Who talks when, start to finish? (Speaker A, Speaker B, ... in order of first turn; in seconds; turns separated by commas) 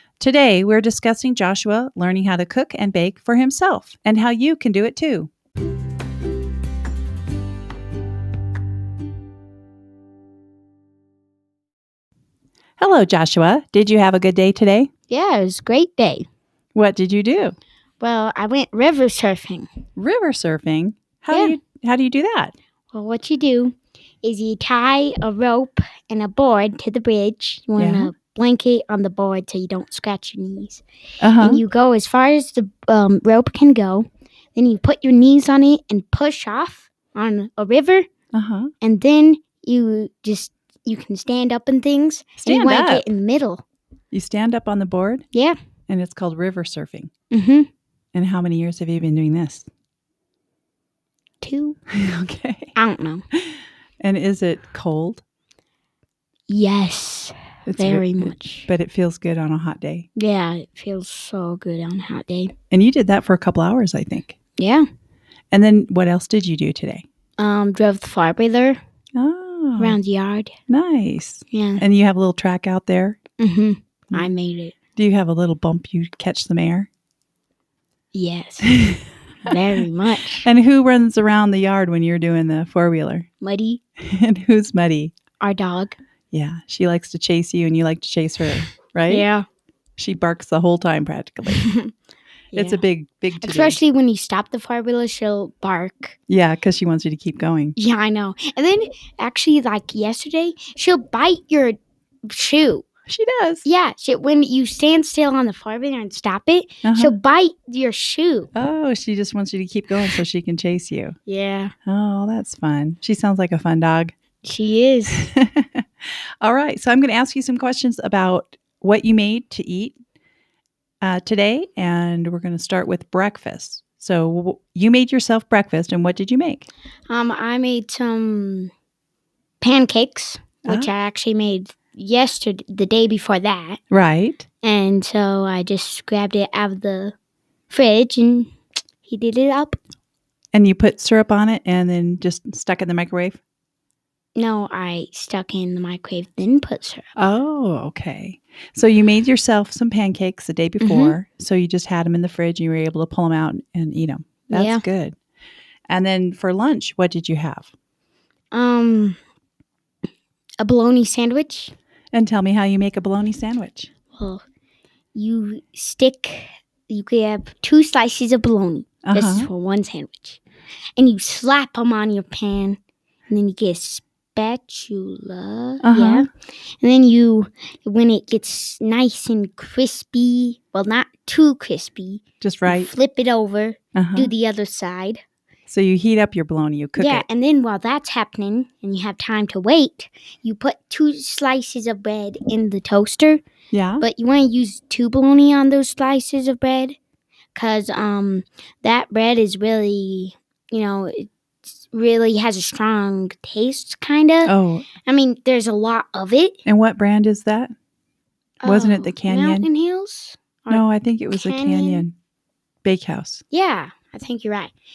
Speaker A: 0.2-5.3, Speaker A: 12.8-14.9, Speaker B: 15.1-16.2, Speaker A: 16.7-17.6, Speaker B: 18.0-19.7, Speaker A: 19.9-22.5, Speaker B: 21.3-21.6, Speaker B: 22.9-30.8, Speaker A: 27.8-28.1, Speaker A: 31.2-31.6, Speaker B: 31.4-38.1, Speaker A: 38.3-38.7, Speaker B: 38.8-43.6, Speaker A: 42.4-43.0, Speaker A: 44.1-45.2, Speaker A: 45.9-47.1, Speaker B: 47.3-47.7, Speaker A: 48.1-49.7, Speaker B: 51.4-51.8, Speaker A: 51.9-52.7, Speaker B: 52.8-53.2, Speaker A: 53.5-55.2, Speaker B: 56.5-58.7, Speaker A: 57.6-60.1, Speaker B: 60.1-62.5, Speaker A: 62.7-64.3, Speaker B: 64.6-64.9, Speaker A: 65.5-67.0, Speaker B: 67.4-68.8, Speaker A: 69.1-70.0, Speaker B: 69.8-70.5, Speaker A: 70.7-73.2, Speaker B: 71.5-71.8, Speaker B: 73.4-74.7, Speaker A: 75.0-76.9, Speaker B: 78.1-80.5, Speaker A: 78.7-79.0, Speaker A: 80.4-83.3, Speaker B: 83.4-83.8, Speaker A: 84.0-85.1, Speaker B: 85.4-86.0, Speaker A: 86.3-89.2, Speaker B: 89.1-89.5, Speaker A: 90.0-91.7, Speaker B: 91.5-91.9, Speaker B: 92.5-92.8, Speaker A: 92.5-93.8, Speaker B: 93.4-96.1, Speaker A: 96.3-97.8, Speaker B: 97.8-101.8, Speaker B: 102.3-102.8, Speaker A: 103.1-103.7, Speaker B: 103.6-108.5, Speaker A: 106.8-107.1, Speaker A: 108.5-111.2, Speaker B: 111.3-111.7, Speaker A: 111.8-114.1, Speaker B: 114.4-115.3, Speaker A: 115.1-115.8, Speaker A: 116.4-120.0, Speaker A: 121.0-126.7, Speaker B: 127.1-128.7, Speaker B: 129.6-133.8, Speaker A: 133.9-134.4, Speaker B: 134.6-137.1, Speaker B: 137.7-138.5, Speaker B: 139.0-139.8, Speaker A: 140.5-143.4, Speaker B: 144.3-147.1, Speaker A: 147.2-155.2, Speaker B: 150.8-151.2, Speaker B: 154.5-154.8, Speaker A: 155.9-157.7, Speaker B: 158.5-159.2, Speaker B: 160.6-161.7, Speaker A: 162.1-163.9, Speaker B: 164.1-164.4, Speaker B: 165.1-170.4, Speaker A: 169.0-169.5, Speaker B: 171.0-172.8, Speaker B: 173.3-176.3, Speaker A: 175.8-176.2, Speaker B: 176.8-185.2, Speaker A: 182.4-182.9, Speaker A: 183.9-184.3, Speaker A: 185.7-187.2, Speaker B: 186.9-193.4, Speaker A: 193.7-194.0, Speaker B: 194.0-197.0, Speaker B: 197.5-201.3, Speaker B: 201.9-204.5, Speaker A: 204.4-204.9, Speaker B: 205.0-206.6, Speaker A: 206.7-207.7, Speaker B: 208.6-212.1, Speaker A: 208.6-209.7, Speaker A: 210.7-212.1, Speaker A: 212.8-213.4, Speaker B: 213.5-214.7